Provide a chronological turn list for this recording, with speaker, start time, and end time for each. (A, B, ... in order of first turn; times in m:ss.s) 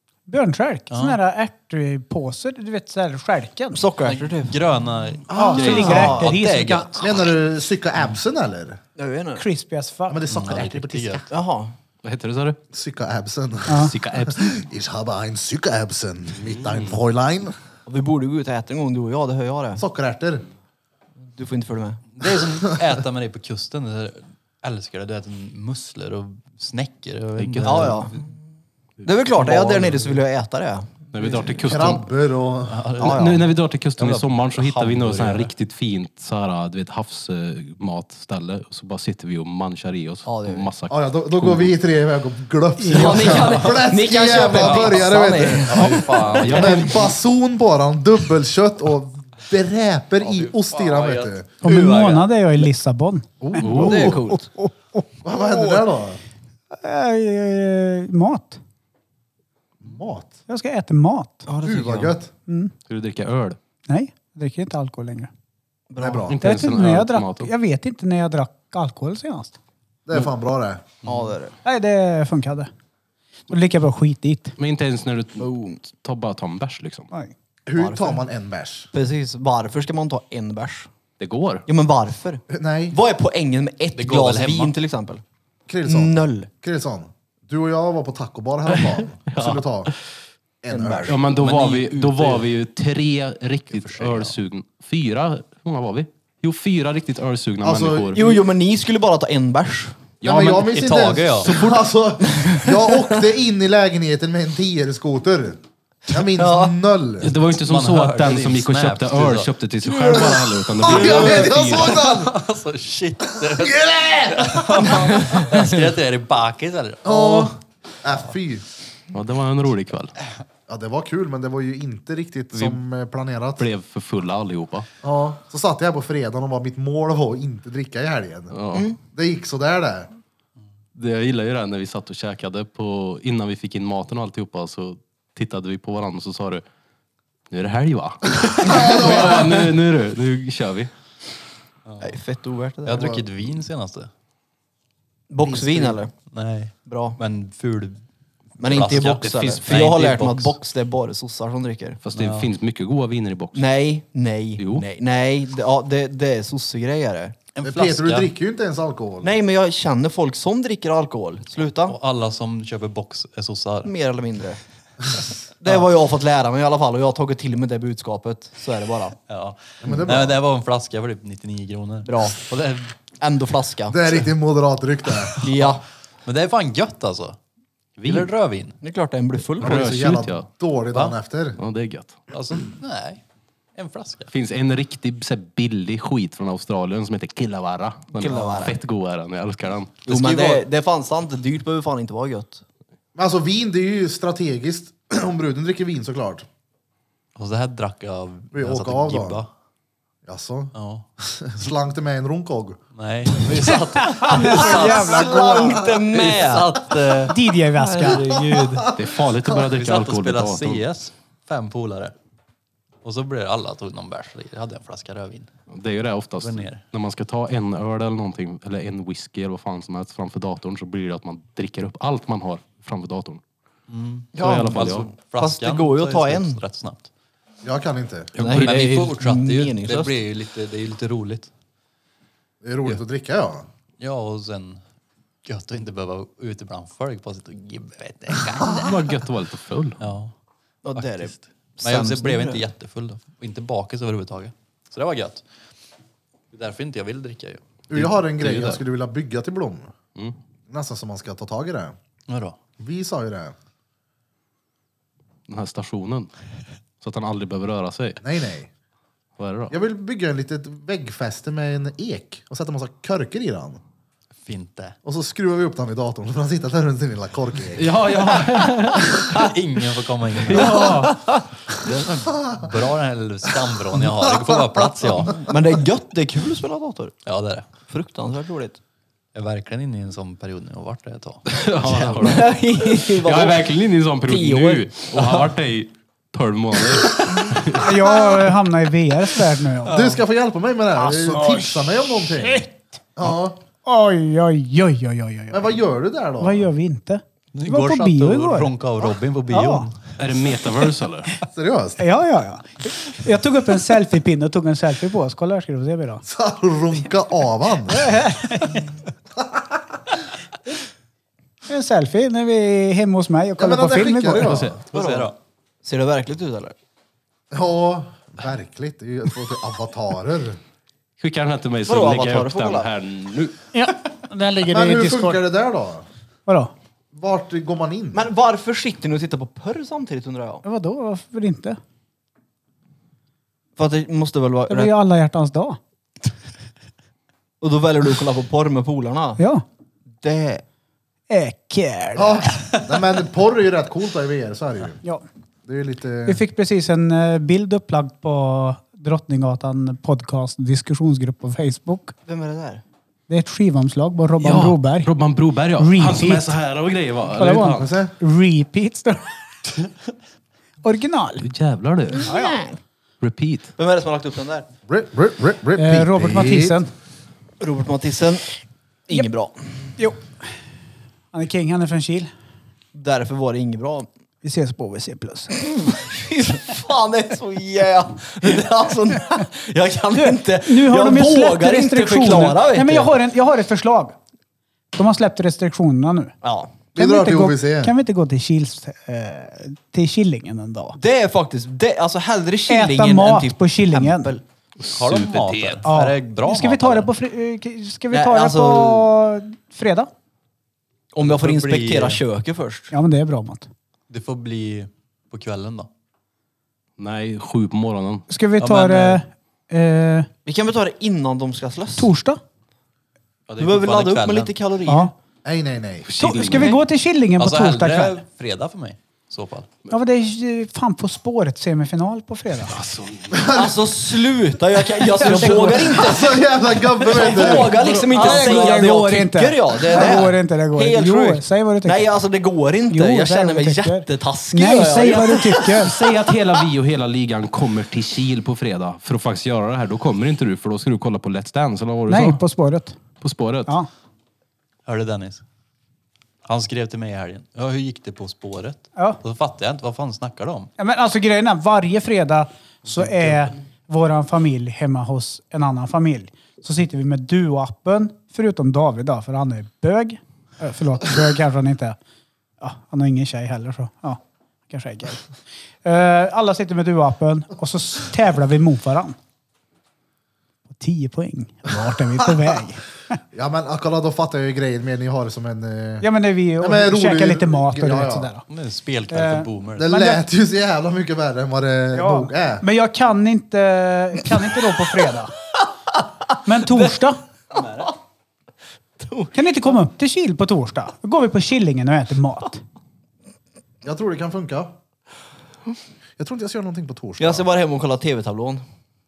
0:00.3-0:03.8 A
0:00.9-0:01.2 B
0:03.7-0:04.6 C
0:04.0-0:07.2 B
0:05.3-0:06.1 D
0:05.4-0:07.0 A
0:05.6-0:06.3 C
0:07.0-0:08.8 D
0:09.0-0:09.4 C
0:09.4-0:10.2 A
0:10.1-0:11.2 D
0:10.3-0:11.3 B
0:11.3-0:11.7 C
0:12.0-0:12.6 E
0:12.7-0:17.5 D
0:13.7-0:13.9 A
0:13.8-0:14.6 E
0:16.7-0:16.9 E
0:17.9-0:19.8 C
0:19.8-0:20.5 D
0:21.4-0:22.1 C
0:22.1-0:28.2 B
0:27.4-0:28.0 E
0:27.6-0:28.3 C
0:29.0-0:30.9 C
0:29.4-0:30.0 B
0:31.1-0:32.1 E
0:31.6-0:33.0 D
0:32.7-0:33.2 B
0:33.0-0:41.7 E
0:33.0-0:33.5 C
0:34.0-0:35.5 B
0:40.3-0:40.7 C
0:40.9-0:51.5 D
0:42.8-0:43.4 A
0:42.9-0:46.8 C
0:44.3-0:47.0 B
0:46.3-0:47.1 E
0:50.2-0:52.3 B
0:51.6-0:55.7 A
0:53.4-0:54.2 D
0:53.6-0:54.2 E
0:53.7-0:54.5 C
0:55.2-0:56.2 D
0:56.7-0:58.6 A
0:59.8-1:00.3 D
1:00.5-1:01.4 A
1:01.5-1:02.2 C
1:01.6-1:02.3 D
1:02.5-1:02.7 A
1:02.9-1:03.6 E
1:03.9-1:05.3 A
1:05.9-1:06.3 C
1:06.0-1:06.4 D
1:06.3-1:07.5 E
1:06.4-1:09.6 A
1:10.1-1:10.9 D
1:11.0-1:11.5 C
1:11.6-1:12.7 A
1:13.5-1:14.6 A
1:14.6-1:17.1 E
1:15.4-1:15.8 C
1:17.7-1:18.9 D
1:17.8-1:18.2 C
1:18.9-1:20.9 C
1:21.2-1:21.7 E
1:21.7-1:25.2 C
1:22.5-1:23.0 D
1:24.0-1:24.7 B
1:25.7-1:29.9 D
1:25.9-1:26.5 C
1:28.7-1:29.6 E
1:30.6-1:31.2 D
1:30.7-1:31.2 C
1:31.1-1:38.3 E
1:31.3-1:32.5 B
1:33.7-1:34.4 B
1:37.6-1:38.3 D
1:38.1-1:40.0 C
1:40.2-1:40.9 E
1:40.2-1:47.3 D
1:40.6-1:41.6 B
1:41.4-1:41.7 E
1:42.2-1:43.2 C
1:46.4-1:46.7 C
1:47.2-1:52.2 E
1:47.5-1:49.5 B
1:50.0-1:52.4 D
1:50.1-1:50.4 C
1:50.8-1:57.5 B
1:53.4-1:55.2 D
1:54.8-1:55.4 C
1:57.0-1:58.6 D
1:59.1-2:00.2 E
2:00.7-2:03.7 D
2:02.5-2:02.8 E
2:03.6-2:04.9 E
2:05.0-2:08.6 D
2:08.5-2:08.9 E
2:09.1-2:10.1 D
2:11.0-2:16.6 E
2:17.5-2:20.9 E
2:18.6-2:19.6 D
2:18.8-2:19.4 C
2:21.9-2:22.2 B
2:22.0-2:23.2 C
2:22.8-2:24.1 B
2:25.3-2:26.1 C
2:25.4-2:26.0 D
2:26.3-2:28.0 B
2:26.8-2:27.2 C
2:28.6-2:30.6 B
2:28.6-2:32.0 C
2:28.7-2:30.0 E
2:32.0-2:33.6 E
2:32.1-2:32.5 B
2:33.6-2:37.4 C
2:34.6-2:34.9 E
2:37.6-2:38.3 B
2:37.6-2:39.4 D
2:39.2-2:42.0 C
2:41.8-2:43.9 B
2:43.8-2:44.6 C
2:45.2-2:49.2 C
2:49.3-2:53.0 B
2:49.8-2:50.4 D
2:52.1-2:52.5 C
2:53.1-2:54.0 C
2:53.9-2:55.4 D
2:55.4-2:57.4 B
2:55.4-2:55.8 C
2:58.0-2:58.8 B
2:58.8-2:59.9 C
2:59.6-3:00.5 E
2:59.6-3:01.6 D
3:01.6-3:02.2 E
3:02.3-3:03.2 B
3:03.8-3:04.3 B
3:04.3-3:10.0 E
3:08.2-3:08.8 C
3:10.0-3:12.6 C
3:10.1-3:10.6 B
3:13.2-3:16.4 D
3:17.4-3:19.5 B
3:18.5-3:19.4 D
3:20.3-3:22.8 D
3:20.7-3:21.0 B
3:23.0-3:29.0 B
3:24.0-3:25.8 A
3:24.2-3:27.1 C
3:25.4-3:25.8 D
3:27.3-3:28.4 A
3:28.2-3:29.0 D
3:28.9-3:30.8 E
3:29.6-3:32.2 B
3:33.0-3:35.5 B
3:35.7-3:43.4 E
3:36.4-3:36.8 B
3:43.9-3:47.1 B
3:44.4-3:46.6 C
3:44.4-3:45.1 E
3:47.6-3:48.3 D
3:48.3-3:51.5 B
3:48.4-3:50.2 C
3:52.6-3:53.7 D
3:54.0-3:54.8 B
3:55.4-3:58.9 B
3:58.6-4:00.0 E
4:00.0-4:00.3 B
4:00.8-4:02.7 C
4:01.8-4:05.5 B
4:06.5-4:07.6 B
4:07.9-4:09.9 D
4:07.9-4:08.8 E
4:10.7-4:12.0 D
4:12.3-4:12.6 B
4:12.8-4:13.6 D
4:15.5-4:16.3 E
4:17.0-4:18.2 E
4:18.2-4:18.7 D
4:19.4-4:19.8 E
4:19.7-4:23.8 D
4:24.4-4:25.0 B
4:25.0-4:28.0 D
4:27.8-4:29.5 E
4:29.4-4:31.1 B
4:30.4-4:31.3 E
4:30.6-4:31.2 C
4:31.7-4:35.4 B
4:34.2-4:34.5 D
4:35.2-4:37.2 C
4:37.3-4:37.7 B
4:37.8-4:38.8 C
4:39.3-4:41.5 B
4:41.5-4:47.9 E
4:41.9-4:43.7 C
4:44.3-4:45.5 C
4:47.0-4:47.6 C
4:47.8-4:50.2 A
4:49.8-4:52.6 D
4:51.0-4:52.7 A
4:53.2-4:53.6 D
4:53.8-4:55.7 A
4:55.5-4:56.7 D
4:56.4-4:58.7 A
4:57.5-5:00.2 B
4:59.5-4:59.9 A
5:00.2-5:01.3 E
5:01.5-5:02.0 D
5:02.0-5:06.2 A
5:06.2-5:08.1 D
5:07.9-5:08.9 A
5:09.4-5:09.6 D
5:11.7-5:14.5 A
5:13.6-5:14.8 D
5:14.4-5:14.8 E
5:14.9-5:15.3 B
5:14.9-5:16.8 C
5:17.5-5:20.6 D
5:21.2-5:23.6 E
5:21.9-5:22.9 C
5:23.7-5:25.4 A
5:24.7-5:26.1 D
5:26.5-5:26.7 A
5:27.1-5:28.2 D
5:28.1-5:30.6 C
5:30.6-5:31.8 A
5:33.8-5:34.9 C
5:34.7-5:35.8 A
5:37.6-5:39.4 C
5:39.4-5:39.6 A
5:40.2-5:40.6 C
5:41.3-5:42.6 A
5:42.2-5:45.0 D
5:45.7-5:46.4 D
5:46.3-5:52.1 A
5:52.3-5:52.8 C
5:53.3-5:55.1 A
5:54.4-5:57.9 E
5:55.8-5:56.6 A
5:57.3-5:59.4 A
5:57.8-5:58.1 D
6:00.8-6:01.5 A
6:01.4-6:02.3 E
6:02.2-6:02.8 C
6:02.2-6:02.6 A
6:03.2-6:03.7 E
6:03.8-6:04.7 C
6:04.9-6:06.8 D
6:05.8-6:06.9 A
6:07.6-6:09.6 C
6:10.0-6:10.2 A
6:11.3-6:12.3 A
6:12.9-6:14.1 C
6:14.4-6:15.5 A
6:15.6-6:23.2 C
6:20.2-6:24.2 A
6:24.9-6:26.3 A
6:26.4-6:26.8 C
6:27.0-6:27.9 D
6:27.0-6:31.0 A
6:31.0-6:34.4 C
6:32.7-6:34.3 A
6:34.8-6:35.9 E
6:34.9-6:37.1 B
6:35.8-6:40.1 A
6:38.1-6:39.1 C
6:41.1-6:42.9 C
6:41.2-6:42.2 B
6:42.9-6:43.7 A
6:44.1-6:45.9 B
6:47.0-6:48.2 E
6:48.3-6:50.3 A
6:48.6-6:49.2 B
6:50.4-6:52.1 C
6:52.0-6:52.4 A
6:53.5-6:54.5 B
6:53.6-6:55.1 C
6:54.9-6:55.1 A
6:55.4-6:56.1 D
6:56.1-6:56.8 E
6:56.2-6:58.2 A
6:56.5-6:56.8 C
6:57.4-6:59.7 B
6:59.9-7:02.8 A
7:02.7-7:03.4 E
7:03.3-7:03.8 D
7:03.5-7:06.4 C
7:05.2-7:06.1 A
7:05.3-7:08.3 D
7:07.0-7:16.7 C
7:08.1-7:12.1 A
7:08.1-7:08.9 B
7:12.9-7:16.0 A
7:15.8-7:22.4 E
7:22.1-7:23.0 A
7:23.2-7:23.7 E
7:24.8-7:25.4 B
7:26.4-7:30.7 B
7:30.8-7:42.0 A
7:42.6-7:45.3 A
7:45.8-7:49.2 A
7:50.7-7:53.2 A
7:53.3-7:56.1 D
7:56.0-7:58.4 A
7:56.6-7:58.3 D
7:58.5-8:00.0 B
7:59.1-8:00.2 A
7:59.8-8:02.6 D
8:01.9-8:05.3 A
8:06.4-8:07.2 A
8:07.5-8:07.9 C
8:07.5-8:07.9 B
8:09.0-8:09.4 C
8:09.3-8:12.6 A
8:13.8-8:14.7 D
8:16.2-8:17.4 D
8:17.2-8:18.6 C